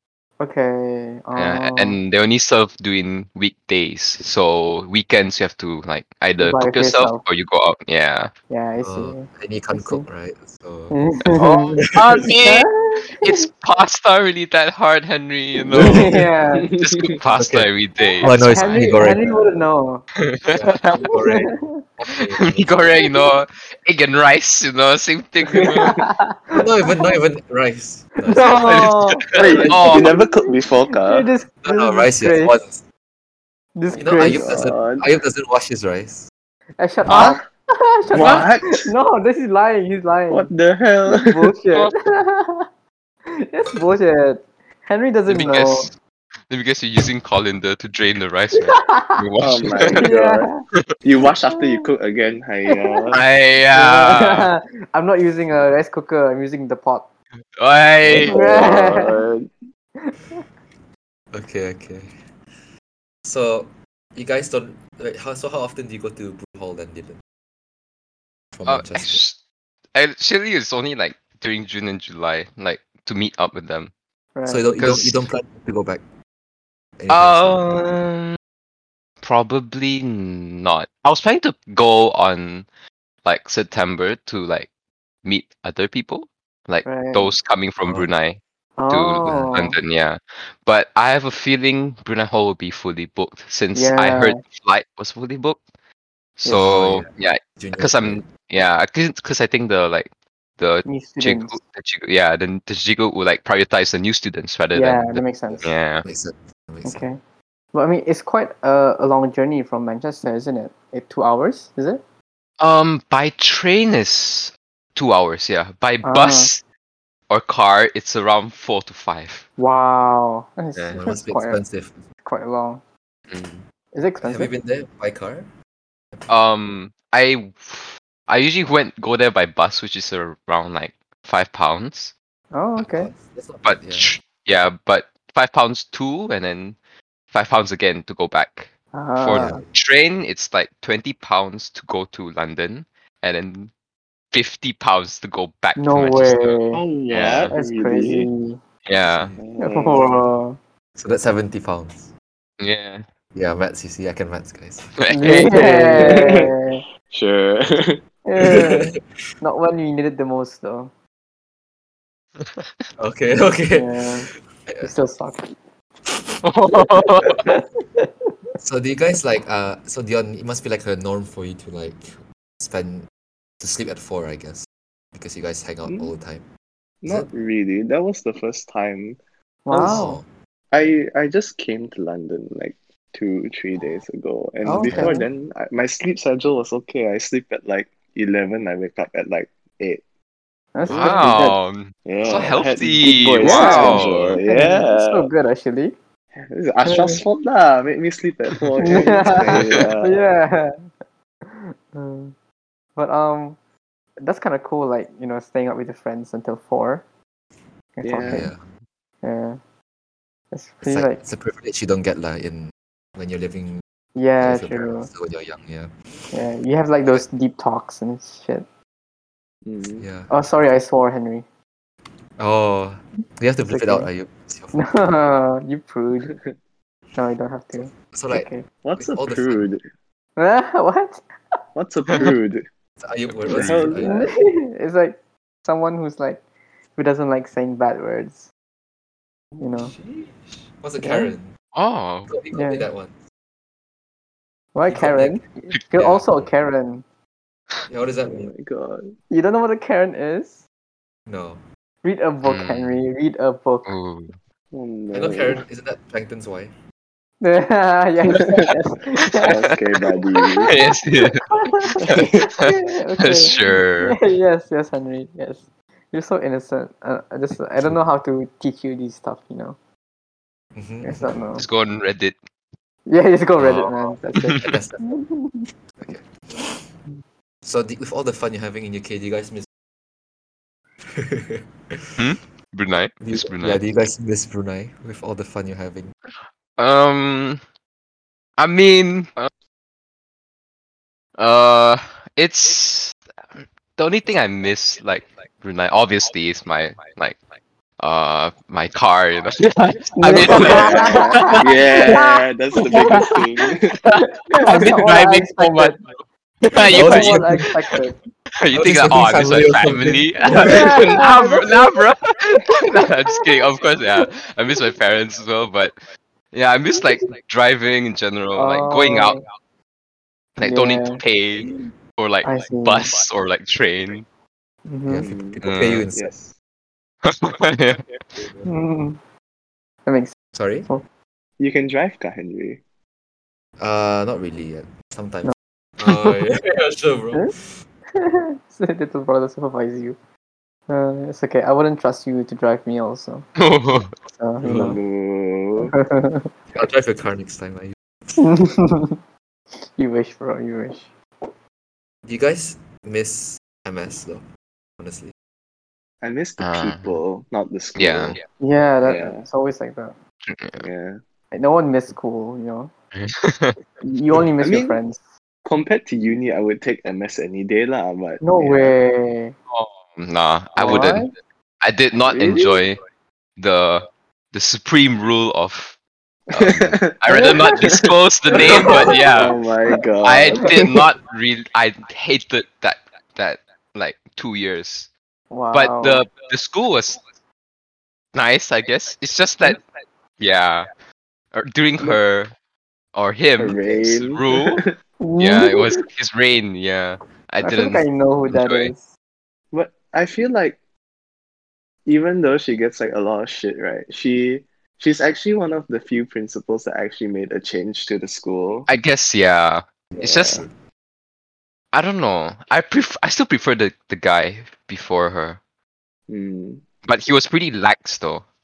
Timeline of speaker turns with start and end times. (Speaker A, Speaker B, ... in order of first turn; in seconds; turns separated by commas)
Speaker A: 0.4-2.0, Speaker B: 1.4-8.3, Speaker A: 6.4-7.2, Speaker A: 8.5-10.1, Speaker C: 8.8-11.0, Speaker A: 10.9-11.8, Speaker B: 11.3-16.1, Speaker C: 12.0-12.3, Speaker A: 12.4-13.5, Speaker A: 15.7-16.7, Speaker D: 15.7-17.1, Speaker B: 16.8-19.1, Speaker C: 17.3-17.7, Speaker A: 18.1-20.0, Speaker C: 18.2-19.5, Speaker B: 20.2-21.2, Speaker C: 20.5-23.1, Speaker A: 21.1-21.8, Speaker B: 22.3-26.1, Speaker D: 25.5-26.1, Speaker A: 25.8-26.6, Speaker C: 26.5-28.9, Speaker A: 28.2-32.6, Speaker B: 28.6-30.1, Speaker D: 29.4-31.3, Speaker C: 31.6-32.8, Speaker A: 33.8-34.7, Speaker C: 34.0-36.3, Speaker D: 34.1-35.1, Speaker A: 36.8-40.5, Speaker B: 37.1-37.4, Speaker D: 37.1-37.4, Speaker D: 38.1-38.9, Speaker B: 38.1-38.5, Speaker D: 40.3-41.5, Speaker A: 41.0-42.7, Speaker A: 43.3-45.9, Speaker B: 45.3-46.0, Speaker B: 46.5-50.1, Speaker A: 48.6-49.2, Speaker D: 49.4-50.5, Speaker A: 49.9-50.6, Speaker D: 51.0-53.2, Speaker A: 51.5-51.9, Speaker A: 52.7-53.1, Speaker B: 53.1-54.5, Speaker A: 53.7-57.1, Speaker B: 57.6-58.4, Speaker D: 58.1-59.5, Speaker A: 58.2-59.1, Speaker A: 60.0-60.4, Speaker C: 61.3-62.1, Speaker C: 63.2-67.2, Speaker C: 68.5-69.2, Speaker B: 68.7-69.4, Speaker B: 69.9-73.9, Speaker A: 74.3-74.7, Speaker C: 74.5-76.0, Speaker B: 74.8-75.2, Speaker C: 77.0-77.8, Speaker B: 77.1-78.4, Speaker B: 79.2-82.7, Speaker B: 83.2-84.7, Speaker B: 85.2-95.6, Speaker A: 86.8-87.3, Speaker A: 88.8-89.8, Speaker A: 93.8-94.4, Speaker C: 96.4-98.2, Speaker B: 96.4-106.0, Speaker A: 100.9-101.6, Speaker A: 104.7-105.7, Speaker C: 105.5-107.1, Speaker A: 106.8-107.2, Speaker A: 107.7-112.0, Speaker B: 112.6-116.6, Speaker A: 116.0-116.5, Speaker B: 117.3-119.5, Speaker A: 119.6-121.6, Speaker C: 120.8-122.0, Speaker A: 122.2-122.8, Speaker B: 123.3-123.6, Speaker A: 123.9-124.5, Speaker C: 124.2-125.5, Speaker B: 126.3-132.1, Speaker A: 132.5-133.1, Speaker C: 132.8-134.1, Speaker B: 133.6-136.8, Speaker B: 137.3-143.7, Speaker A: 138.9-139.6, Speaker C: 139.3-139.7, Speaker B: 144.3-146.6, Speaker A: 145.8-146.8, Speaker D: 146.7-148.3, Speaker C: 147.1-147.5, Speaker A: 147.5-148.6, Speaker B: 148.9-149.3, Speaker C: 149.1-149.4, Speaker D: 149.4-150.2, Speaker A: 149.6-150.6, Speaker C: 151.0-152.1, Speaker B: 152.6-153.1, Speaker C: 153.3-155.0, Speaker B: 155.0-156.2, Speaker A: 155.1-156.8, Speaker D: 155.5-156.6, Speaker D: 157.1-158.1, Speaker A: 158.3-160.9, Speaker C: 158.4-158.9, Speaker B: 162.4-162.7, Speaker C: 163.0-163.9, Speaker A: 163.7-164.3, Speaker C: 164.6-164.9, Speaker A: 164.8-165.5, Speaker B: 166.4-167.4, Speaker A: 167.4-168.3, Speaker C: 168.6-173.1, Speaker C: 173.6-176.5, Speaker D: 175.9-176.1, Speaker D: 177.0-179.2, Speaker A: 179.7-180.2, Speaker D: 179.7-180.0, Speaker C: 179.7-180.3, Speaker D: 180.7-190.0, Speaker A: 184.7-185.3, Speaker C: 184.8-185.2, Speaker A: 190.8-191.6, Speaker D: 190.9-191.5, Speaker B: 190.9-194.4, Speaker D: 192.1-195.3, Speaker A: 193.4-195.9, Speaker D: 196.4-200.2, Speaker A: 196.8-197.2, Speaker A: 198.8-200.9, Speaker C: 199.3-199.6, Speaker B: 199.5-199.8, Speaker A: 201.4-202.3, Speaker A: 203.0-203.6, Speaker A: 204.2-207.0, Speaker A: 208.0-208.5, Speaker D: 208.0-208.5, Speaker C: 208.2-208.7, Speaker A: 209.2-209.6, Speaker A: 210.5-211.2, Speaker C: 210.8-213.8, Speaker A: 214.2-215.1, Speaker C: 214.4-215.9, Speaker A: 216.3-218.7, Speaker D: 219.7-220.1, Speaker C: 220.0-220.4, Speaker A: 220.3-221.4, Speaker C: 222.4-224.8, Speaker A: 223.7-224.1, Speaker A: 224.7-226.3, Speaker A: 227.2-228.7, Speaker C: 227.8-229.7, Speaker D: 228.8-229.8, Speaker A: 230.4-231.6, Speaker D: 231.8-232.6, Speaker C: 233.0-234.3, Speaker B: 233.5-233.7, Speaker D: 233.5-234.3, Speaker A: 234.0-236.4, Speaker A: 237.0-238.5, Speaker A: 239.6-239.9, Speaker C: 239.7-241.5, Speaker A: 241.0-241.3, Speaker B: 241.8-242.3, Speaker C: 242.3-243.2, Speaker A: 242.5-242.9, Speaker A: 244.8-247.0, Speaker C: 244.9-246.5, Speaker C: 247.9-248.5, Speaker D: 248.3-249.2, Speaker A: 249.3-250.6, Speaker C: 251.3-251.6, Speaker A: 252.0-253.9, Speaker B: 252.4-253.0, Speaker B: 253.9-254.3, Speaker D: 254.7-255.6, Speaker C: 255.1-256.7, Speaker A: 257.4-259.6, Speaker D: 258.3-258.6, Speaker D: 259.4-260.7, Speaker B: 260.6-261.4, Speaker A: 260.6-269.8, Speaker D: 262.0-262.4, Speaker B: 262.0-264.2, Speaker C: 270.8-271.4, Speaker A: 271.0-271.6, Speaker B: 271.6-272.4, Speaker A: 273.1-275.7, Speaker B: 273.6-274.7, Speaker C: 274.6-275.2, Speaker C: 276.0-276.7, Speaker C: 277.6-279.7, Speaker C: 281.1-282.1, Speaker B: 282.2-283.8, Speaker C: 283.2-286.1, Speaker B: 286.8-287.6, Speaker B: 288.6-289.5, Speaker B: 291.4-297.4, Speaker B: 298.0-307.7, Speaker A: 300.2-303.4, Speaker D: 300.3-303.9, Speaker A: 304.1-306.0, Speaker C: 306.8-307.7, Speaker A: 306.9-308.2, Speaker B: 308.6-316.0, Speaker C: 308.7-311.1, Speaker A: 310.5-312.0, Speaker A: 312.6-313.4, Speaker B: 316.5-319.4, Speaker A: 316.9-317.2, Speaker A: 318.6-319.4, Speaker B: 320.6-324.2, Speaker A: 320.6-321.2, Speaker A: 322.4-323.1, Speaker A: 324.9-325.3, Speaker C: 325.1-326.3, Speaker D: 325.1-326.5, Speaker B: 325.6-326.1, Speaker B: 327.2-328.1, Speaker C: 328.4-328.7, Speaker A: 328.6-329.2, Speaker A: 330.1-330.4, Speaker C: 330.5-330.9, Speaker D: 331.6-332.8, Speaker C: 333.8-337.8, Speaker B: 336.1-336.3, Speaker A: 338.1-340.2, Speaker A: 340.9-343.5, Speaker B: 343.6-344.1, Speaker A: 344.3-345.0, Speaker D: 344.6-345.9, Speaker C: 344.6-345.0, Speaker A: 345.8-346.5, Speaker C: 346.7-347.9, Speaker A: 348.4-349.2, Speaker A: 349.8-351.1, Speaker C: 352.3-354.4, Speaker C: 355.0-355.3, Speaker D: 356.2-358.4, Speaker B: 356.6-357.2, Speaker B: 358.0-358.4, Speaker A: 358.6-360.2, Speaker D: 359.0-359.5, Speaker B: 360.5-360.8, Speaker D: 360.8-361.2, Speaker A: 361.5-362.9, Speaker B: 363.1-363.8, Speaker A: 364.0-365.2, Speaker D: 364.6-365.0, Speaker D: 365.6-368.9, Speaker A: 368.4-369.6, Speaker B: 369.7-371.3, Speaker A: 370.8-371.3, Speaker B: 371.8-373.0, Speaker D: 372.3-372.8, Speaker B: 373.6-375.9, Speaker D: 376.5-381.0, Speaker B: 376.5-379.6, Speaker A: 377.3-377.8, Speaker A: 378.7-379.3, Speaker B: 380.2-385.1, Speaker A: 385.5-386.3, Speaker B: 385.7-387.2, Speaker B: 388.3-389.8, Speaker B: 390.4-390.9, Speaker B: 391.5-392.5, Speaker B: 393.1-394.8, Speaker D: 393.6-394.9, Speaker A: 395.2-396.1, Speaker B: 395.4-398.9, Speaker A: 397.6-399.1, Speaker D: 399.7-400.8, Speaker D: 402.1-408.9, Speaker B: 408.9-410.6, Speaker C: 410.1-410.7, Speaker D: 410.2-410.7, Speaker B: 411.9-415.6, Speaker D: 416.3-416.8, Speaker B: 417.1-418.4